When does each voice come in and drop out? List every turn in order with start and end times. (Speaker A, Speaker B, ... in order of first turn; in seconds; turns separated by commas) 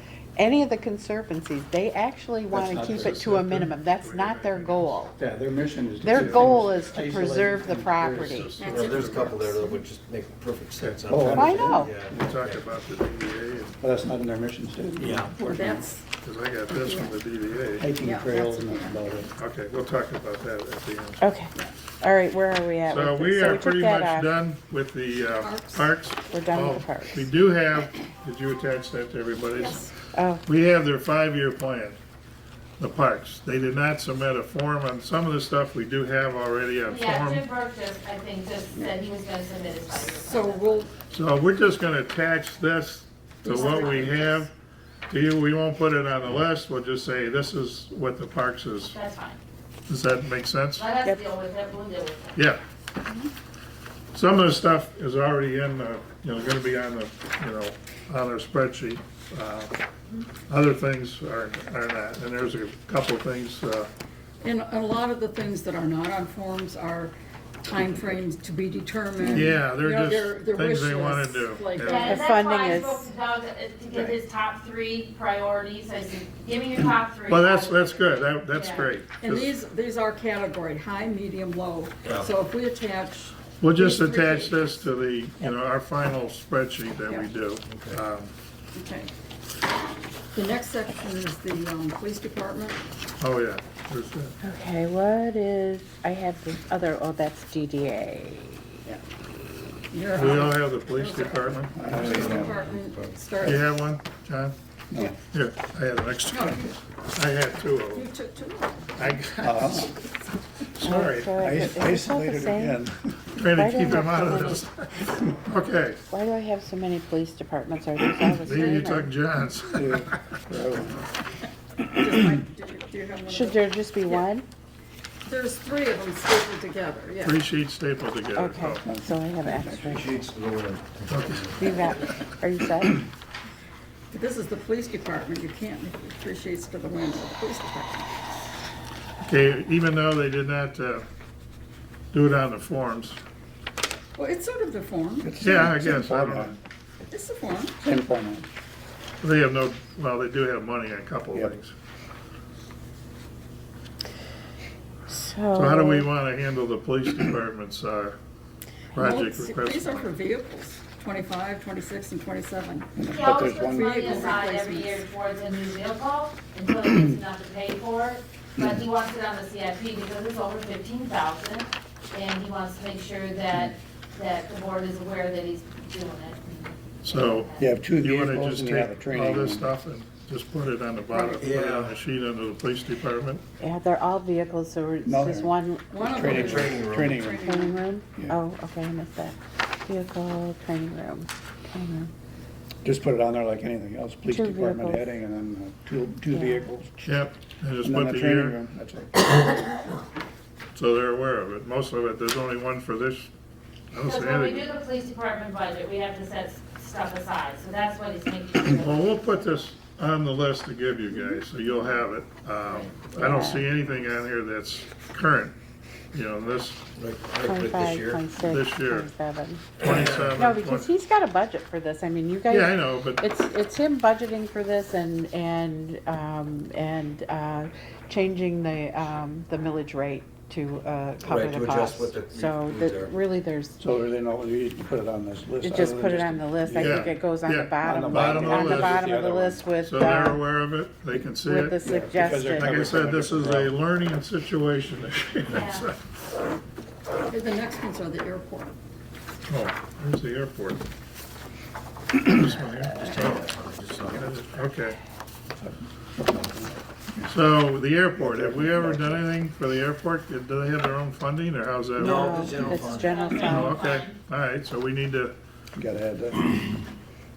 Speaker A: 0.4-5.1, Speaker B: 2.5-3.5, Speaker C: 3.0-5.0, Speaker B: 5.1-8.5, Speaker A: 6.0-8.6, Speaker C: 6.1-6.9, Speaker C: 8.2-9.3, Speaker D: 8.6-9.8, Speaker E: 8.6-12.7, Speaker B: 11.1-12.3, Speaker A: 11.3-11.9, Speaker C: 12.2-13.8, Speaker B: 13.8-15.8, Speaker D: 15.0-16.1, Speaker E: 15.0-15.3, Speaker C: 16.2-17.9, Speaker D: 16.7-17.2, Speaker B: 17.8-19.3, Speaker D: 18.0-19.0, Speaker C: 19.4-21.3, Speaker A: 21.2-24.3, Speaker C: 22.9-29.9, Speaker D: 25.4-25.9, Speaker A: 26.3-27.3, Speaker F: 29.6-29.9, Speaker A: 30.1-30.4, Speaker C: 30.4-32.0, Speaker C: 32.8-37.5, Speaker F: 36.9-40.9, Speaker D: 39.9-40.9, Speaker C: 41.1-44.5, Speaker D: 43.4-44.5, Speaker F: 43.5-44.2, Speaker C: 45.1-49.0, Speaker F: 48.9-49.4, Speaker C: 49.9-50.9, Speaker F: 50.8-52.4, Speaker C: 52.4-52.6, Speaker C: 54.1-59.7, Speaker C: 60.4-63.9, Speaker D: 64.4-72.2, Speaker C: 69.2-72.2, Speaker F: 71.9-78.9, Speaker A: 71.9-73.1, Speaker C: 77.3-79.6, Speaker D: 79.2-84.8, Speaker E: 82.0-82.3, Speaker C: 83.6-88.3, Speaker E: 87.7-88.0, Speaker D: 88.8-89.1, Speaker D: 90.3-92.8, Speaker C: 93.2-94.3, Speaker A: 94.4-98.8, Speaker D: 99.9-103.7, Speaker C: 100.1-101.9, Speaker B: 101.8-102.7, Speaker E: 102.0-103.3, Speaker C: 103.4-104.5, Speaker B: 104.9-105.2, Speaker C: 105.3-108.1, Speaker D: 106.3-106.8, Speaker D: 107.9-109.2, Speaker C: 109.0-109.9, Speaker B: 109.4-109.9, Speaker C: 110.8-111.3, Speaker A: 110.8-112.8, Speaker B: 111.4-113.2, Speaker C: 113.4-116.0, Speaker A: 113.4-114.6, Speaker A: 116.1-119.1, Speaker C: 118.4-120.2, Speaker B: 119.8-121.0, Speaker D: 121.8-124.3, Speaker A: 123.3-124.5, Speaker D: 125.3-127.4, Speaker C: 127.2-128.8, Speaker A: 128.4-130.2, Speaker B: 128.8-129.6, Speaker E: 129.8-131.7, Speaker C: 131.1-131.5, Speaker A: 131.6-133.0, Speaker D: 134.1-138.2, Speaker C: 139.2-141.1, Speaker C: 142.1-143.2, Speaker D: 144.2-145.3, Speaker B: 145.2-146.6, Speaker C: 145.4-146.6, Speaker D: 147.1-147.8, Speaker B: 147.8-148.5, Speaker C: 149.2-151.7, Speaker A: 155.1-156.1, Speaker C: 155.6-158.2, Speaker C: 158.9-160.1, Speaker D: 158.9-163.0, Speaker B: 163.0-164.0, Speaker F: 163.1-177.7, Speaker D: 163.7-165.1, Speaker C: 177.0-183.4, Speaker B: 177.6-179.7, Speaker E: 181.4-182.0, Speaker A: 183.6-186.3, Speaker B: 185.1-187.4, Speaker D: 185.9-187.8, Speaker E: 186.1-187.3, Speaker A: 187.4-192.1, Speaker B: 192.8-197.2, Speaker A: 194.3-195.1, Speaker A: 196.3-196.7, Speaker C: 197.1-198.6, Speaker B: 197.8-199.3, Speaker C: 200.8-203.3, Speaker C: 203.9-204.7, Speaker F: 204.0-208.9, Speaker C: 208.8-215.6, Speaker A: 213.2-213.7, Speaker C: 216.1-216.8, Speaker E: 216.9-218.3, Speaker A: 217.4-219.7, Speaker C: 218.3-219.1, Speaker C: 219.8-220.9, Speaker E: 219.8-220.2, Speaker A: 220.3-233.8, Speaker C: 222.5-223.2, Speaker E: 231.2-233.2, Speaker B: 233.8-237.1, Speaker A: 235.6-240.4, Speaker C: 236.8-239.1, Speaker B: 237.8-239.7, Speaker C: 239.8-241.8, Speaker A: 241.4-242.8, Speaker B: 241.8-243.7, Speaker C: 242.6-246.1, Speaker F: 245.5-245.9, Speaker D: 247.3-248.8, Speaker C: 249.5-250.9, Speaker C: 252.2-253.4, Speaker E: 252.9-254.3, Speaker C: 254.2-255.0, Speaker B: 255.6-257.3, Speaker C: 257.3-262.7, Speaker B: 258.2-259.2, Speaker E: 262.0-263.2, Speaker A: 262.0-263.8, Speaker F: 262.9-264.2, Speaker C: 263.3-265.4, Speaker B: 265.8-266.6